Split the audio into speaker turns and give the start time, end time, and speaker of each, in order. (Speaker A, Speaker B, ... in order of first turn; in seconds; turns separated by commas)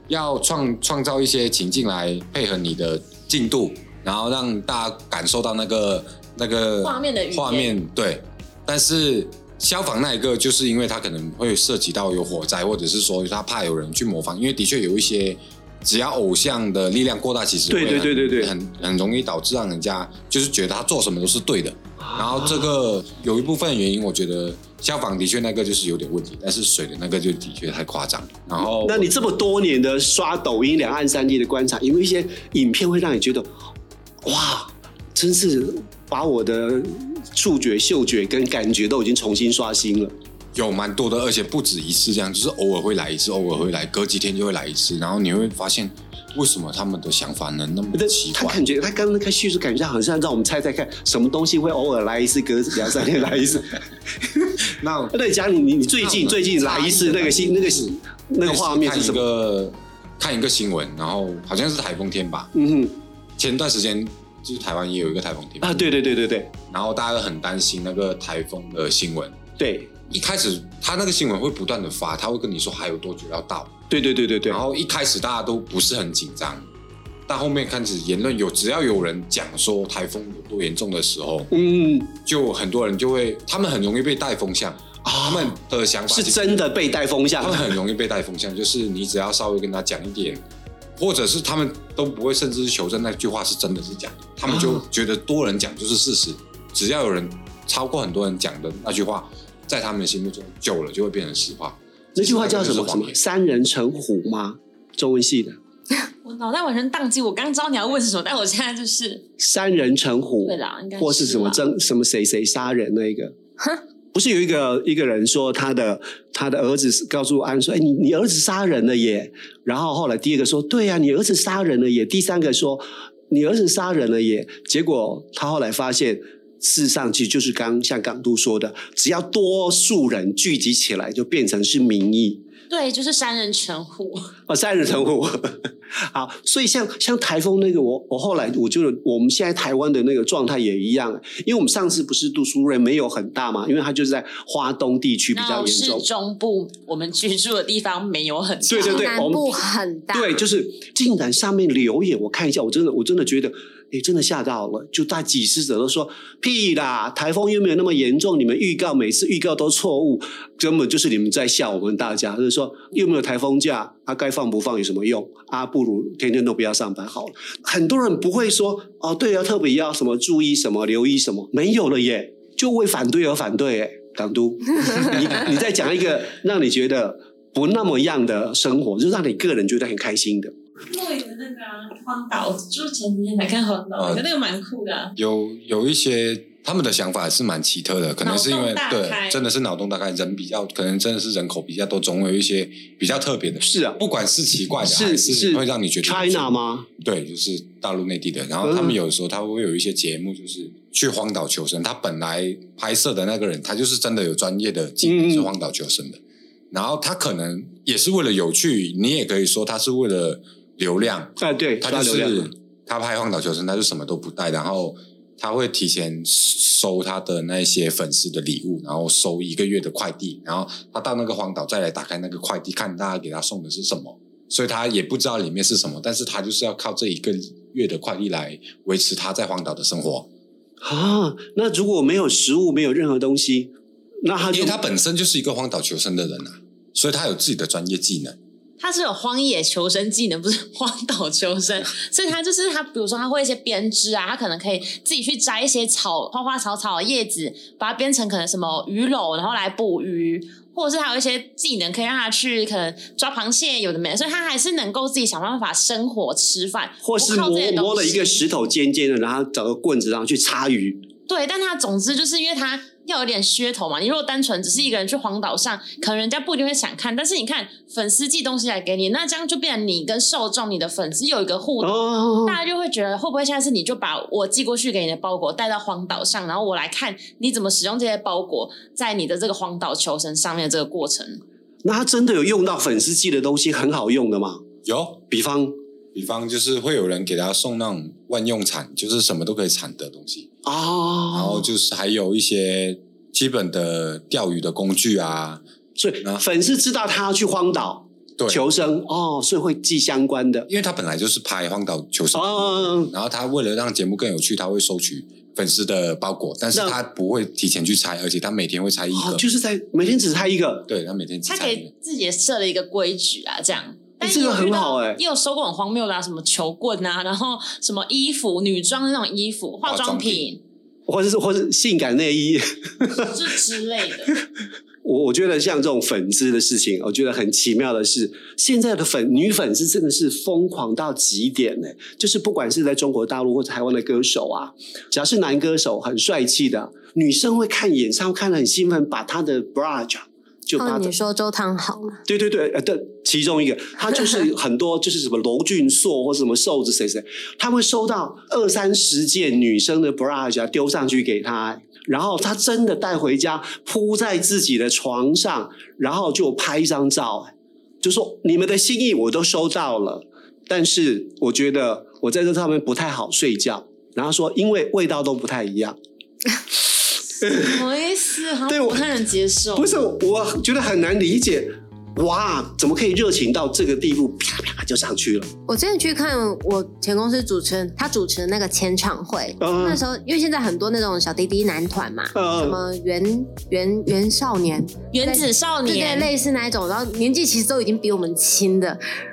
Speaker A: 0.1-29.1, Speaker B: 6.8-7.7, Speaker C: 17.7-18.5, Speaker C: 22.0-22.7, Speaker C: 28.8-33.5, Speaker C: 34.2-40.1, Speaker A: 40.5-48.6, Speaker C: 47.9-59.2, Speaker A: 54.8-55.2, Speaker A: 56.0-62.5, Speaker C: 62.5-63.0, Speaker A: 63.4-65.9, Speaker C: 65.6-66.5, Speaker A: 66.7-69.4, Speaker C: 69.6-70.0, Speaker A: 70.1-73.7, Speaker C: 73.9-74.6, Speaker A: 74.5-76.7, Speaker A: 77.3-81.5, Speaker C: 81.5-82.1, Speaker A: 82.3-86.7, Speaker C: 85.0-85.6, Speaker C: 86.1-87.8, Speaker A: 87.4-90.4, Speaker A: 91.0-103.2, Speaker C: 94.5-94.8, Speaker C: 102.2-105.6, Speaker B: 106.2-109.2, Speaker C: 109.4-113.3, Speaker B: 110.4-111.7, Speaker C: 114.1-132.4, Speaker B: 132.7-134.3, Speaker C: 134.5-146.1, Speaker B: 145.3-149.1, Speaker C: 148.7-180.5, Speaker D: 148.7-150.4, Speaker B: 180.9-185.1, Speaker A: 184.0-184.2, Speaker A: 185.2-206.2, Speaker B: 188.2-189.4, Speaker C: 193.6-194.0, Speaker C: 194.8-196.9, Speaker C: 198.6-199.0, Speaker C: 205.0-205.5, Speaker A: 206.7-230.3, Speaker C: 211.4-212.5, Speaker C: 230.8-234.8, Speaker A: 234.5-238.4, Speaker B: 238.8-258.5, Speaker C: 257.0-261.0, Speaker B: 261.3-281.4, Speaker C: 271.8-272.6, Speaker C: 281.8-284.6, Speaker A: 284.9-285.2, Speaker C: 285.3-285.8, Speaker A: 286.1-290.5, Speaker C: 290.6-291.7, Speaker A: 291.3-295.6, Speaker C: 296.0-300.7, Speaker A: 298.4-298.6, Speaker A: 300.7-309.4, Speaker C: 302.4-303.1, Speaker C: 309.1-310.9, Speaker A: 310.9-311.9, Speaker B: 311.5-320.6, Speaker C: 314.2-315.2, Speaker A: 319.9-320.4, Speaker C: 321.1-323.3, Speaker B: 323.2-324.3, Speaker C: 325.0-341.1, Speaker D: 340.8-342.2, Speaker C: 342.3-366.0, Speaker C: 367.4-367.8, Speaker B: 367.4-369.9, Speaker C: 368.7-369.0, Speaker C: 369.8-375.5, Speaker D: 375.7-389.0, Speaker C: 379.6-380.0, Speaker C: 382.3-382.8, Speaker B: 385.1-386.3